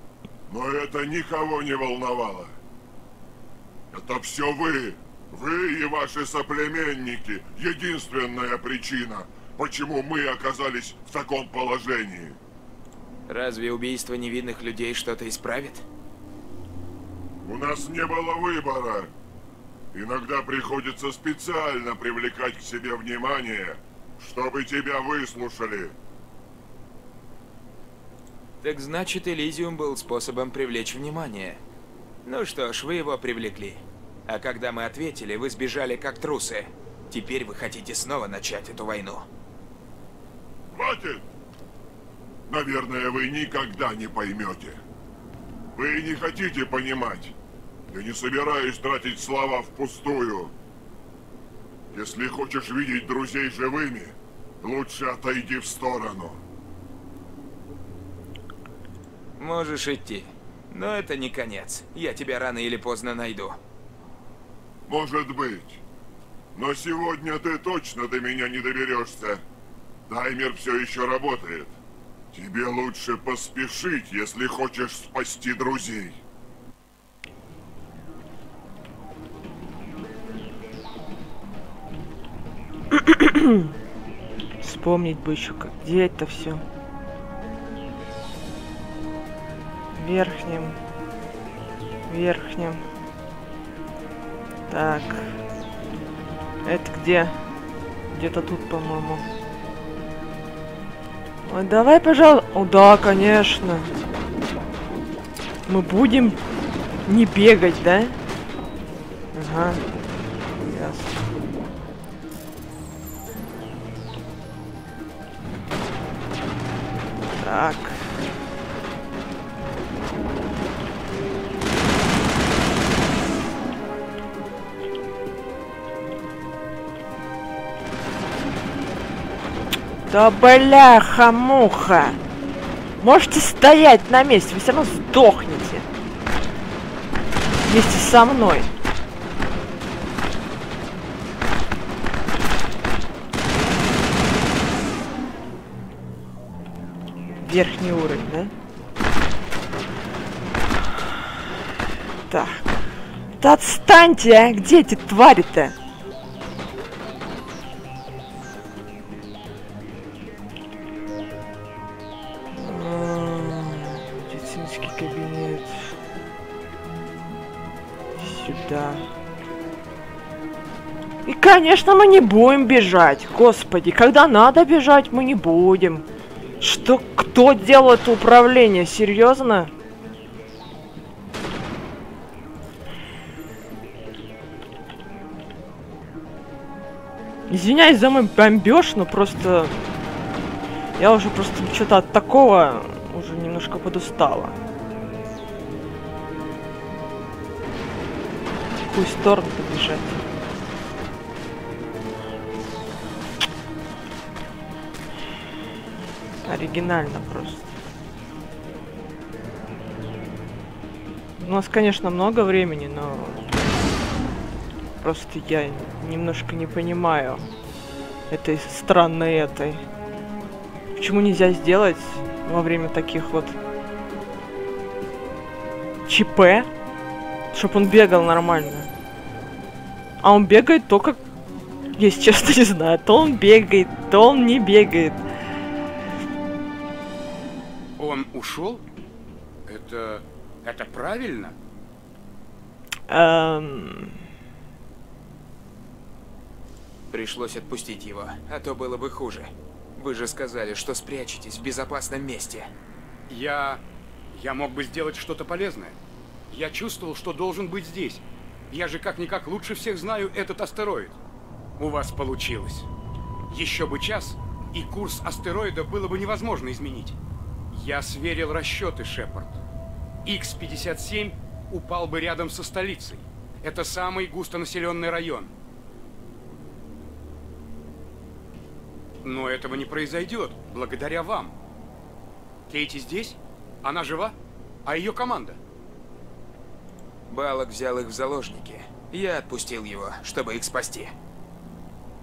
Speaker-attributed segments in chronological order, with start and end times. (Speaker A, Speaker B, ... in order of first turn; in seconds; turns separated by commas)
Speaker A: 0.5-2.5, Speaker A: 3.9-12.4, Speaker B: 13.3-15.8, Speaker A: 17.4-19.1, Speaker A: 19.9-25.9, Speaker B: 28.6-31.6, Speaker B: 32.2-39.3, Speaker A: 40.7-41.2, Speaker A: 42.5-44.8, Speaker A: 45.8-47.3, Speaker A: 47.9-50.5, Speaker A: 51.9-56.4, Speaker B: 59.4-63.6, Speaker A: 64.9-65.8, Speaker A: 66.5-69.4, Speaker A: 70.1-71.8, Speaker A: 72.3-76.2, Speaker C: 82.9-83.7, Speaker C: 84.6-86.6, Speaker C: 89.9-90.8, Speaker C: 92.1-92.8, Speaker C: 94.7-95.4, Speaker C: 96.7-97.4, Speaker C: 98.1-99.2, Speaker C: 101.5-103.9, Speaker C: 105.7-106.4, Speaker C: 107.1-108.2, Speaker C: 109.3-109.8, Speaker C: 110.6-111.2, Speaker C: 117.4-118.1, Speaker C: 130.1-132.2, Speaker C: 133.0-135.9, Speaker C: 137.7-138.7, Speaker C: 147.4-148.5, Speaker C: 152.3-152.8, Speaker C: 153.4-155.8, Speaker C: 162.5-165.8, Speaker C: 168.2-169.1, Speaker C: 171.3-176.1, Speaker C: 176.6-179.7, Speaker C: 187.5-189.8, Speaker C: 191.0-194.6, Speaker C: 198.9-200.2, Speaker C: 206.4-207.7, Speaker C: 211.4-213.5, Speaker C: 215.0-217.5, Speaker C: 218.3-219.8, Speaker C: 221.0-223.6, Speaker C: 226.1-226.7, Speaker C: 227.5-228.9, Speaker C: 230.2-231.2, Speaker C: 232.0-235.2, Speaker D: 238.0-238.8, Speaker D: 239.7-241.6, Speaker C: 243.1-244.2, Speaker B: 247.1-252.7, Speaker D: 253.3-253.8, Speaker D: 254.3-256.0, Speaker D: 256.5-261.2, Speaker D: 261.8-262.9, Speaker D: 263.5-267.2, Speaker D: 267.7-269.6, Speaker D: 270.2-275.5, Speaker D: 279.2-281.6, Speaker D: 282.7-284.3, Speaker D: 284.9-285.6, Speaker B: 287.3-291.1